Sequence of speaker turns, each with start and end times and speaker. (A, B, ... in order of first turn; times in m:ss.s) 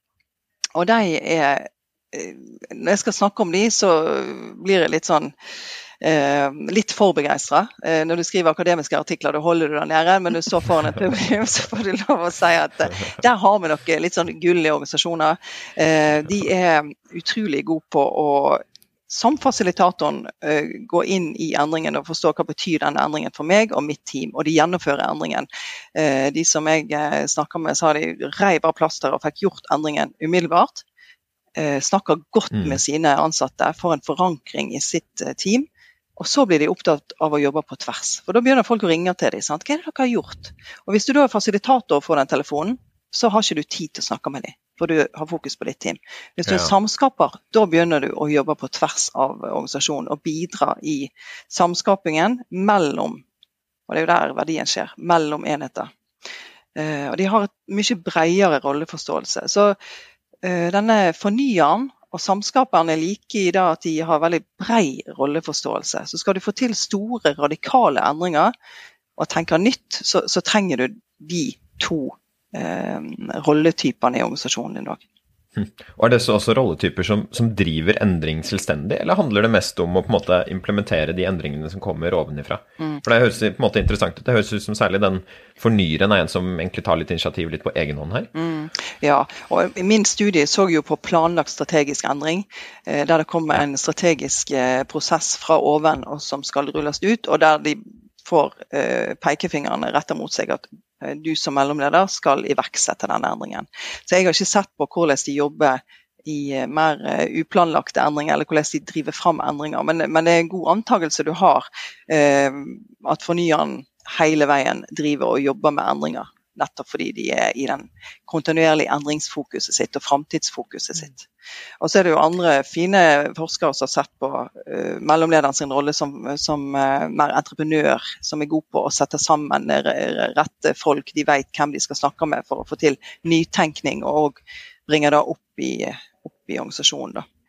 0:00.7-0:05.3 A
0:06.0-0:30.8 A
0:31.6-0:35.6 A
0:32.5-0:32.8 B
0:36.2-0:53.2 A
0:46.4-0:46.7 B
0:53.9-0:55.9 A
0:56.8-0:59.8 A
1:00.4-1:08.5 A
1:09.2-1:15.0 A
1:15.6-1:28.3 B
1:28.3-2:01.2 A
2:01.8-2:17.2 A